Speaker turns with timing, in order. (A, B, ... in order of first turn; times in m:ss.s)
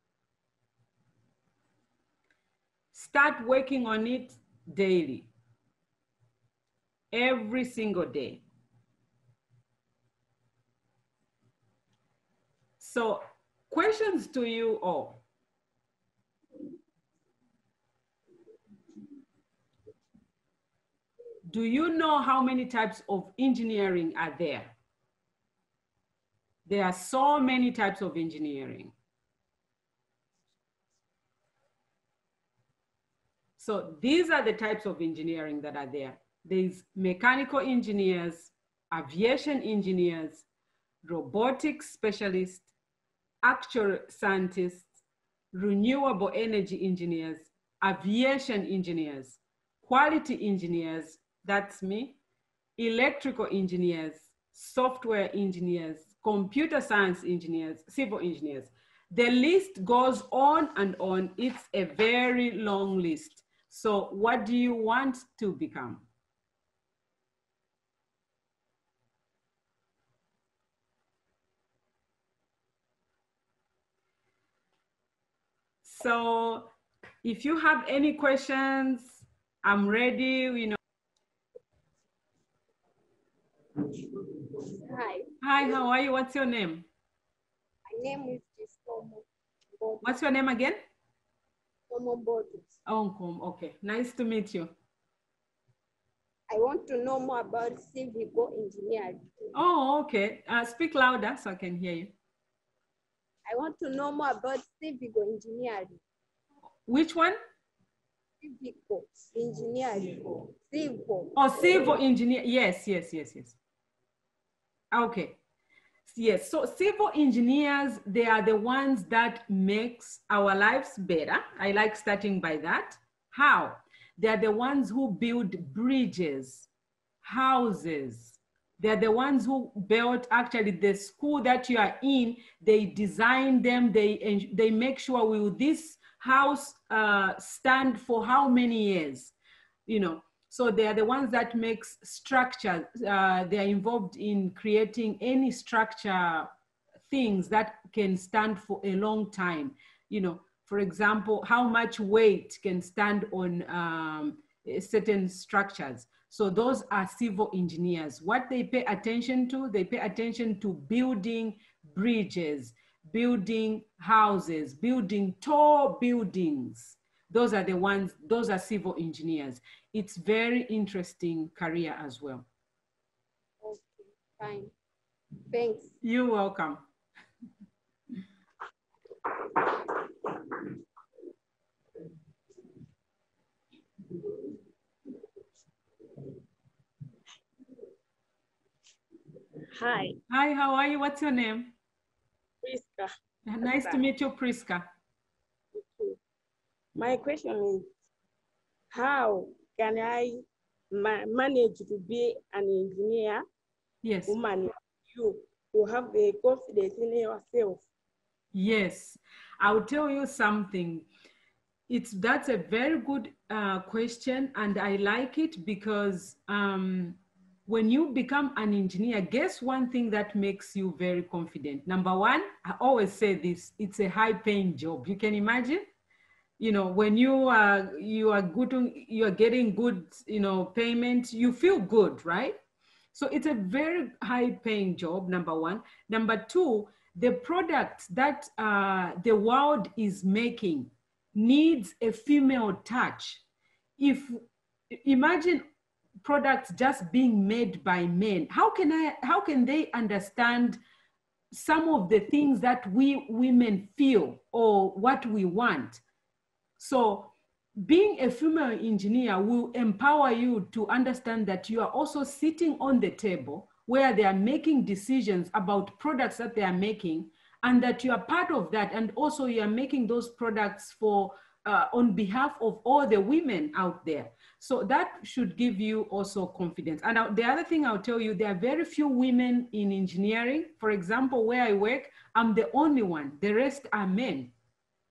0:02.9-0:05.3 A
0:07.1-0:08.4 A
0:12.8-0:15.2 A
0:21.5-0:24.7 A
0:26.6-0:28.9 A
0:33.6-0:40.4 A
0:41.0-0:42.7 A
0:43.4-0:44.9 A
0:45.5-0:52.2 A
0:52.8-1:06.0 A
1:15.8-1:16.7 A
1:17.2-1:20.8 A
1:24.6-1:25.3 B
1:25.4-1:26.8 A
1:27.9-1:29.2 B
1:29.8-1:30.0 B
1:30.0-1:30.8 A
1:31.9-1:32.7 B
1:32.8-1:34.7 A
1:36.5-1:39.2 B
1:39.5-1:42.1 A
1:43.4-1:46.0 B
1:46.9-1:47.4 A
1:48.4-1:51.4 B
1:51.3-1:53.6 A
1:54.9-1:55.4 A
1:56.1-2:06.7 A
2:07.2-2:19.3 A
2:19.9-2:26.5 A
2:27.1-2:52.4 A
2:53.6-2:54.7 B
2:55.5-2:55.9 B
2:56.0-2:56.8 A
3:09.7-3:10.2 C
3:10.3-3:11.7 A
3:12.6-3:13.1 C
3:13.5-3:14.9 A
3:13.6-3:14.0 C
3:15.7-3:16.2 C
3:17.0-3:17.8 C
3:18.9-3:23.4 C
3:24.0-3:24.4 A
3:24.3-3:27.8 C
3:28.5-3:31.1 A
3:31.9-3:45.8 A
3:46.6-3:52.6 A
3:53.1-4:03.4 A
4:04.0-4:05.6 A
4:06.2-4:10.8 A
4:11.5-4:16.0 A
4:16.8-4:44.5 A